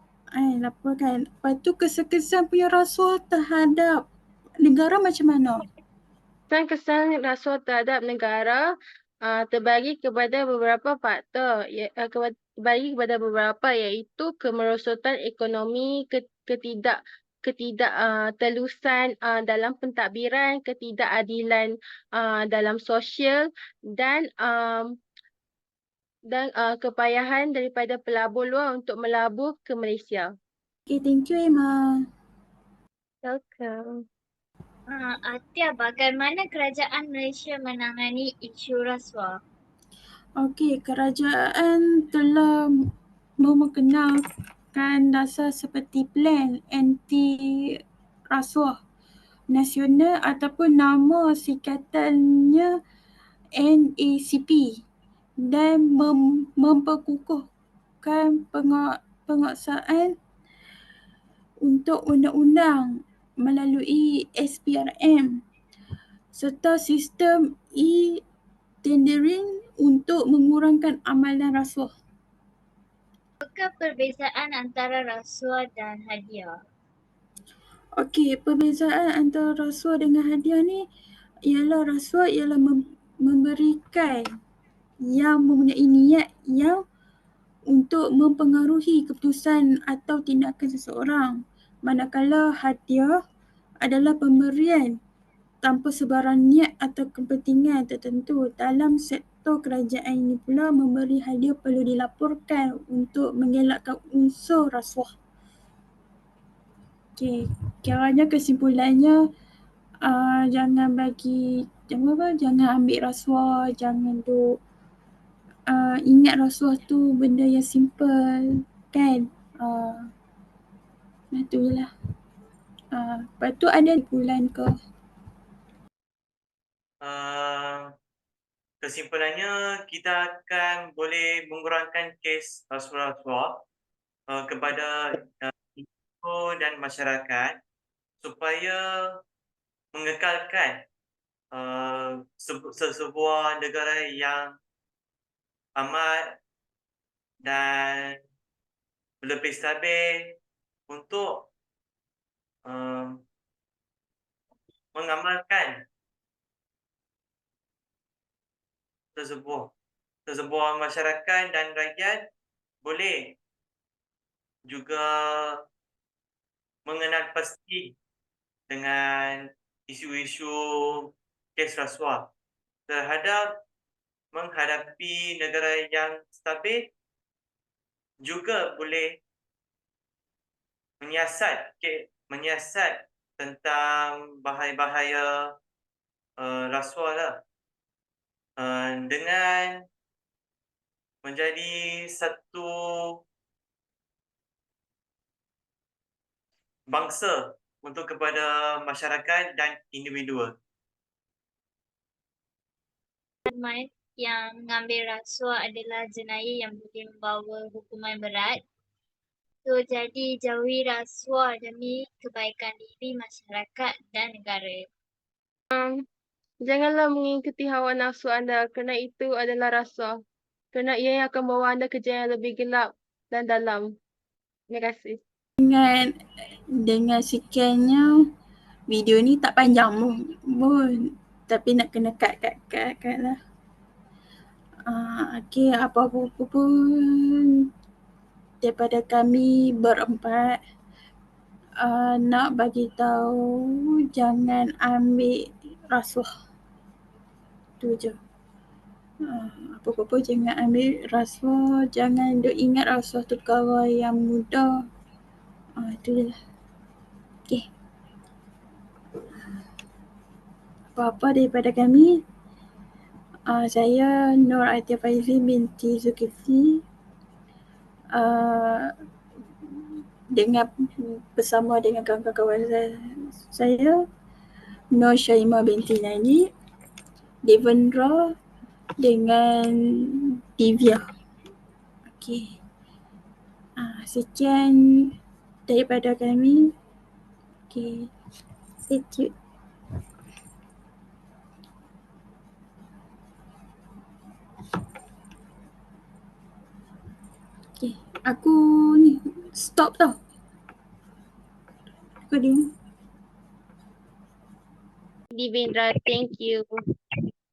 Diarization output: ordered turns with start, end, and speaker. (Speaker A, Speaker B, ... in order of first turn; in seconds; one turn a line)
Speaker A: 0.3-4.0
Speaker A: 4.6-5.6
Speaker B: 6.5-8.6
Speaker B: 9.2-24.9
Speaker B: 26.3-30.3
Speaker A: 30.9-32.0
Speaker B: 33.2-33.8
Speaker C: 34.9-39.3
Speaker A: 40.4-42.7
Speaker A: 43.4-44.2
Speaker A: 44.7-47.6
Speaker A: 48.3-48.7
Speaker A: 49.5-52.7
Speaker A: 53.6-54.7
Speaker A: 55.4-57.4
Speaker A: 58.0-60.1
Speaker A: 61.6-65.3
Speaker A: 66.3-68.2
Speaker A: 68.8-71.9
Speaker C: 73.4-76.5
Speaker A: 78.0-80.8
Speaker A: 81.5-84.2
Speaker A: 85.1-86.8
Speaker A: 87.7-93.1
Speaker A: 93.8-95.0
Speaker A: 95.6-105.1
Speaker A: 107.2-109.2
Speaker A: 110.0-114.5
Speaker A: 115.7-120.0
Speaker A: 121.3-121.9
Speaker A: 122.9-124.7
Speaker D: 127.0-127.9
Speaker D: 128.8-133.6
Speaker D: 134.3-137.6
Speaker D: 138.2-139.2
Speaker D: 139.9-140.8
Speaker D: 141.5-144.6
Speaker D: 145.8-146.4
Speaker D: 147.4-148.2
Speaker D: 149.2-150.4
Speaker D: 150.9-151.5
Speaker D: 152.7-153.2
Speaker D: 154.9-155.8
Speaker D: 159.1-159.7
Speaker D: 160.3-162.3
Speaker D: 162.8-163.4
Speaker D: 164.7-165.6
Speaker D: 166.8-167.9
Speaker D: 168.7-172.3
Speaker D: 172.9-173.6
Speaker D: 174.3-176.9
Speaker D: 178.2-179.2
Speaker D: 181.0-185.6
Speaker D: 186.4-187.4
Speaker D: 188.6-189.8
Speaker D: 191.2-193.2
Speaker D: 196.9-200.5
Speaker C: 203.4-208.6
Speaker C: 209.6-214.8
Speaker B: 216.7-220.1
Speaker B: 220.7-223.9
Speaker B: 224.7-225.2
Speaker A: 225.6-226.1
Speaker A: 226.8-228.1
Speaker A: 228.9-231.0
Speaker A: 231.5-233.4
Speaker A: 234.9-237.4
Speaker A: 238.6-240.6
Speaker A: 241.8-243.4
Speaker A: 244.1-246.3
Speaker A: 247.8-248.2
Speaker A: 249.3-254.7
Speaker A: 255.8-256.4
Speaker A: 260.9-262.2
Speaker A: 263.5-266.8
Speaker A: 268.1-268.9
Speaker A: 270.4-274.0
Speaker A: 274.9-276.4
Speaker A: 277.4-278.3
Speaker A: 279.0-281.0
Speaker A: 282.1-282.6
Speaker A: 283.8-284.8
Speaker A: 285.7-286.7
Speaker A: 287.7-288.1
Speaker A: 288.9-289.3
Speaker A: 297.8-300.1
Speaker A: 302.3-302.6
Speaker B: 305.3-306.6